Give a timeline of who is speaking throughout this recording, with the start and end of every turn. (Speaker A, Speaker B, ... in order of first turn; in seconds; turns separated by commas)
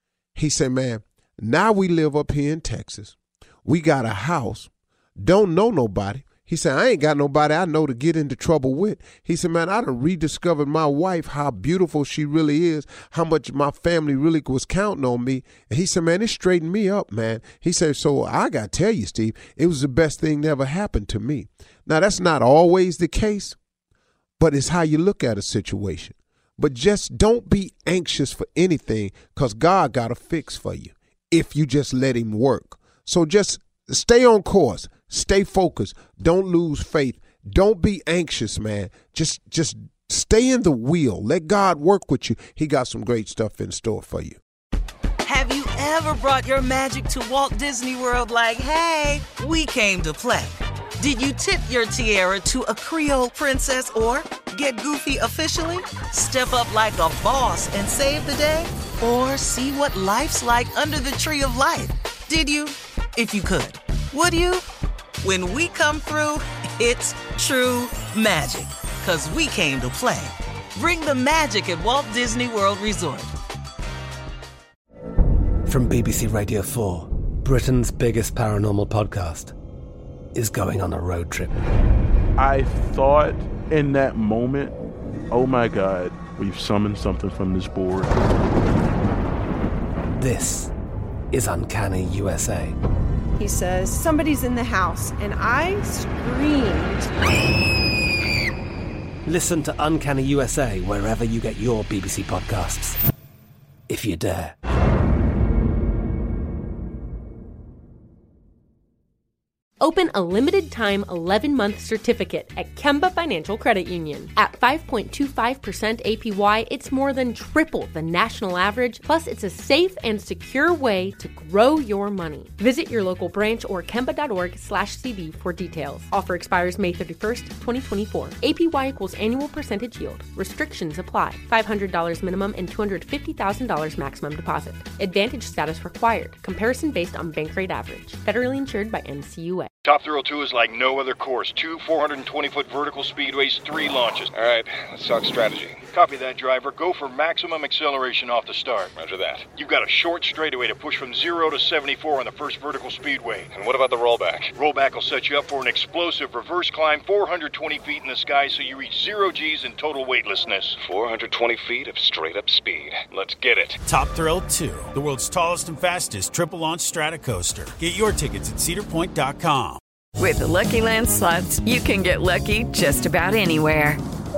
Speaker A: 0.4-23.6, Speaker A: 24.4-44.4, Speaker B: 45.2-64.6, Speaker B: 65.2-73.3, Speaker C: 75.7-79.5, Speaker C: 80.4-81.6, Speaker D: 82.4-84.8, Speaker D: 85.3-88.1, Speaker C: 90.2-90.7, Speaker C: 91.3-92.7, Speaker E: 93.9-96.7, Speaker C: 99.3-103.0, Speaker C: 103.9-104.5, Speaker F: 109.8-139.7, Speaker G: 139.8-144.3, Speaker H: 144.3-145.9, Speaker G: 145.9-148.9, Speaker H: 149.0-149.5, Speaker G: 149.5-153.5, Speaker H: 153.5-154.5, Speaker G: 154.6-160.8, Speaker H: 160.8-163.8, Speaker I: 163.8-169.8, Speaker J: 170.3-174.0